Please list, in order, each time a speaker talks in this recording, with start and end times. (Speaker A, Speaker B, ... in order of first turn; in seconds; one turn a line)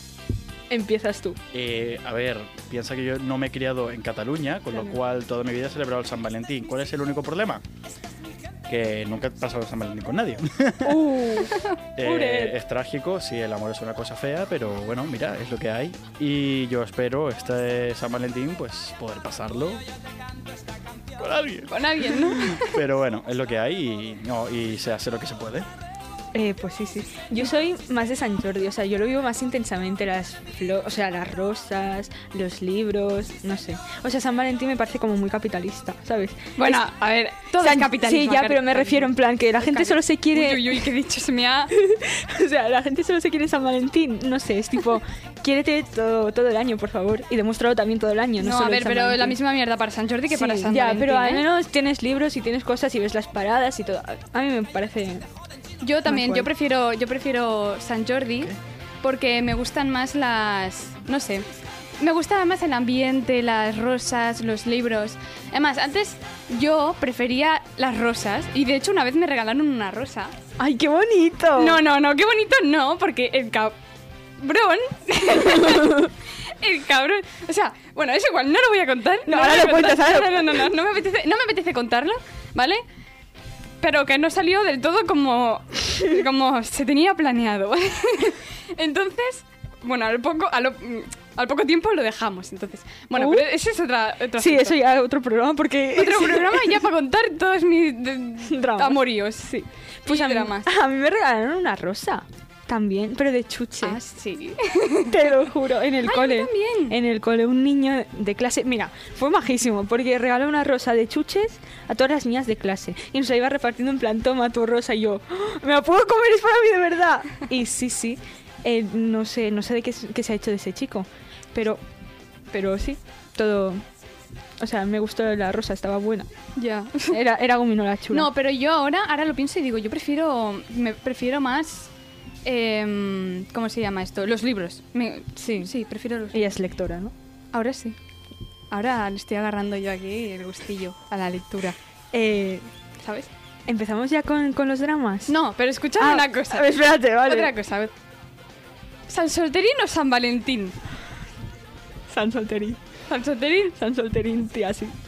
Speaker A: 0.7-1.4
Speaker B: 1.5-7.6
Speaker B: 8.7-11.3
Speaker A: 10.8-12.6
Speaker B: 11.9-19.8
Speaker B: 21.2-25.7
Speaker C: 21.7-22.8
Speaker A: 26.4-36.9
Speaker C: 36.6-41.7
Speaker A: 37.5-40.9
Speaker A: 41.8-49.4
Speaker C: 48.4-51.5
Speaker A: 50.3-55.2
Speaker C: 55.8-61.5
Speaker A: 56.1-56.5
Speaker C: 62.0-70.3
Speaker A: 70.6-71.8
Speaker C: 71.6-73.8
Speaker C: 74.4-82.8
Speaker A: 75.5-76.1
Speaker A: 79.3-80.7
Speaker C: 83.8-94.8
Speaker A: 93.2-93.5
Speaker A: 94.4-96.8
Speaker C: 96.0-100.7
Speaker A: 98.5-104.0
Speaker C: 103.8-105.2
Speaker A: 105.1-121.8
Speaker C: 106.0-107.0
Speaker A: 122.5-123.8
Speaker A: 124.6-126.3
Speaker C: 126.6-127.2
Speaker A: 127.1-128.3
Speaker C: 128.1-131.9
Speaker C: 132.4-136.5
Speaker A: 135.4-135.7
Speaker A: 136.3-137.1
Speaker C: 137.5-138.0
Speaker C: 138.7-141.8
Speaker A: 142.1-142.7
Speaker C: 143.0-143.3
Speaker A: 143.7-145.4
Speaker C: 145.3-146.7
Speaker A: 146.0-147.5
Speaker C: 147.2-147.9
Speaker C: 149.1-150.8
Speaker A: 152.1-152.8
Speaker C: 153.1-153.8
Speaker A: 153.7-154.9